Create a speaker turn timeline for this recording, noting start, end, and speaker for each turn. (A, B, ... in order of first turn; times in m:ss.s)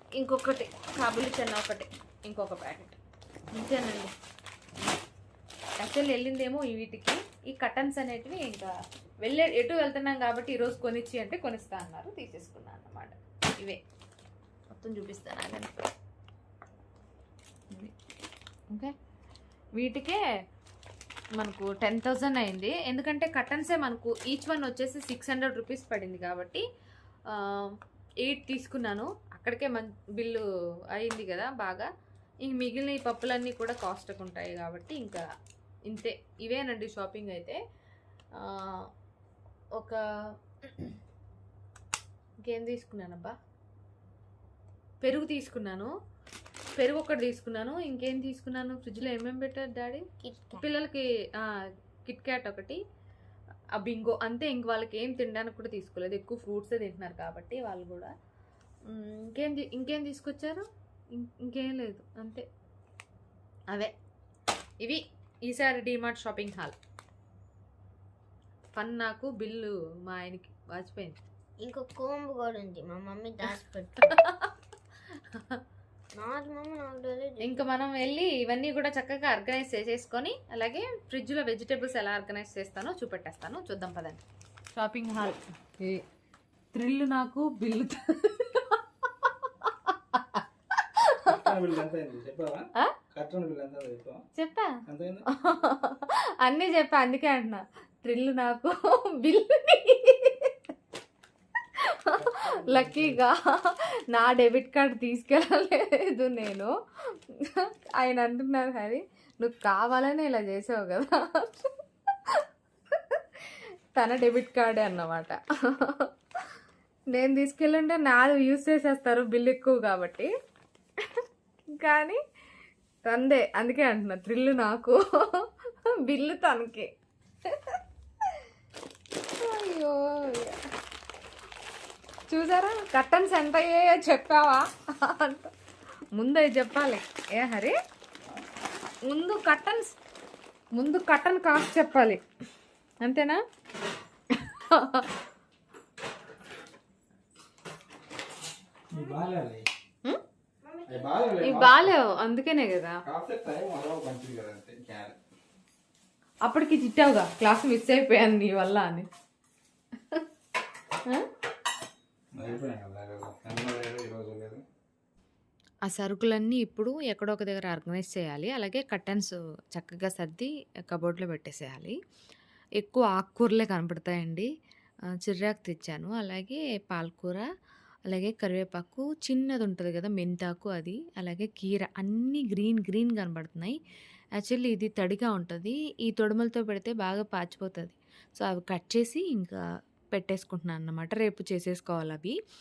0:00.2-0:03.0 A
0:03.5-0:04.1 A
0:05.8-0:13.8 A
0:14.7-0:15.8 A
0:19.8-0:20.2 A
0:21.4-0:26.6 A
0:27.3-0:30.4 A
0:31.0-0:31.9 A
0:32.4-0:35.2 A
0:35.9-0:37.6 A
0:38.4-0:38.9 A
0:42.4-0:43.4 A
0:45.0-0:45.9 A
0:46.8-0:50.0 A
0:50.2-0:50.6 B
0:50.6-0:52.8 A
0:53.8-0:58.1 A
0:58.9-1:02.4 A
1:04.8-1:06.8 A
1:08.8-1:11.2 A
1:11.6-1:14.2 B
1:14.1-1:14.6 A
1:15.1-1:15.6 A
1:16.2-1:17.5 B
1:17.4-1:24.2 A
1:24.7-1:26.0 A
1:26.7-1:31.4 A
1:31.2-1:34.2 C
1:34.4-1:34.8 A
1:34.9-1:35.3 C
1:35.3-1:40.7 A
1:41.8-1:56.1 A
1:42.2-1:43.2 C
1:57.1-2:00.3 A
2:01.0-2:02.2 A
2:03.0-2:06.9 A
2:07.5-2:07.8 A
2:09.4-2:10.6 A
2:12.3-2:15.5 A
2:16.2-2:17.8 A
2:19.1-2:20.0 A
2:20.7-2:22.2 A
2:23.0-2:23.4 A
2:24.3-2:25.1 A
2:28.9-2:29.7 C
2:28.9-2:29.4 B
2:30.6-2:31.6 B
2:30.9-2:31.9 C
2:31.4-2:33.0 A
2:33.1-2:35.2 C
2:36.4-2:39.1 A
2:42.4-2:44.6 C
2:45.9-2:52.0 A
2:52.8-2:54.5 A
2:55.2-2:57.5 A
2:58.1-3:03.8 A
3:04.4-3:12.4 A